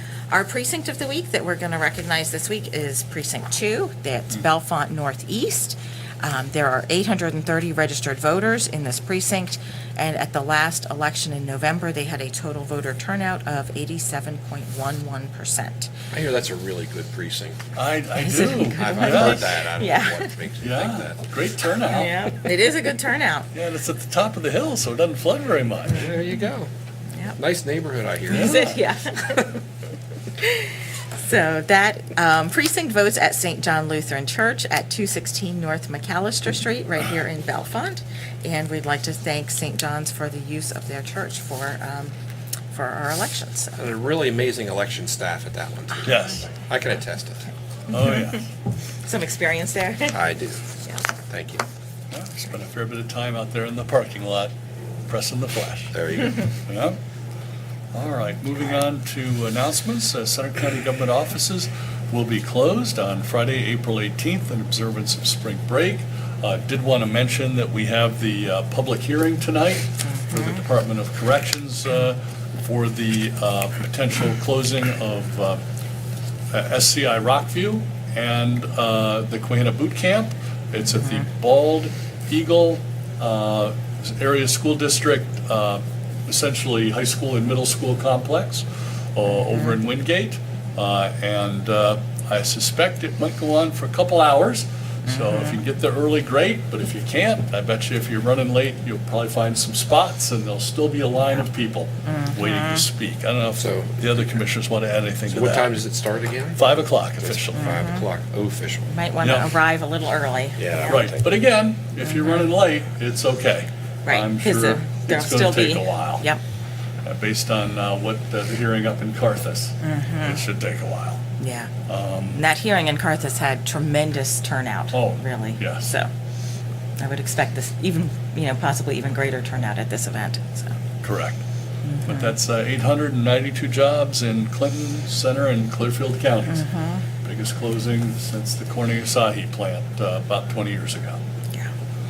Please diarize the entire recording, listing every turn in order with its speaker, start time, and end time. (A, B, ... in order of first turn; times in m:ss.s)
0:00.3-0:15.9 A
0:16.1-0:17.6 B
0:17.8-0:19.5 C
0:18.2-0:20.3 A
0:18.6-0:21.3 B
0:20.6-0:22.3 C
0:21.8-0:23.5 A
0:23.5-0:26.1 C
0:25.9-0:26.7 B
0:27.4-0:28.7 B
0:28.3-0:29.6 A
0:28.3-0:28.8 C
0:30.4-0:42.1 A
0:42.7-0:43.8 A
0:43.8-0:47.5 B
0:46.0-0:46.5 C
0:47.9-0:48.5 C
0:49.0-0:50.2 A
0:50.1-0:50.6 B
0:51.3-0:51.6 B
0:52.1-0:54.5 C
0:55.1-0:56.0 C
0:55.9-0:56.5 B
0:56.6-0:57.0 C
0:57.9-1:15.6 C
1:10.0-1:10.6 A
1:16.5-1:45.7 C
1:35.0-1:35.6 A
1:42.0-1:42.8 A
1:43.6-1:43.9 B
1:45.3-1:48.9 B
1:46.6-1:47.8 C
1:47.5-1:48.1 A
1:48.9-1:51.1 A
1:49.2-1:49.5 C
1:50.6-1:51.3 B
1:50.9-1:56.2 C
1:52.0-1:52.4 A
1:54.0-1:56.4 A
1:57.0-2:01.2 C
1:59.8-2:00.4 A
2:01.4-2:01.7 A
2:01.9-2:02.4 C
2:02.3-2:06.1 A
2:04.9-2:05.9 C
2:07.0-2:10.8 A
2:11.0-2:11.4 C
2:11.8-2:12.3 A
2:12.0-2:16.6 C
2:16.5-2:17.0 A
2:17.2-2:21.2 C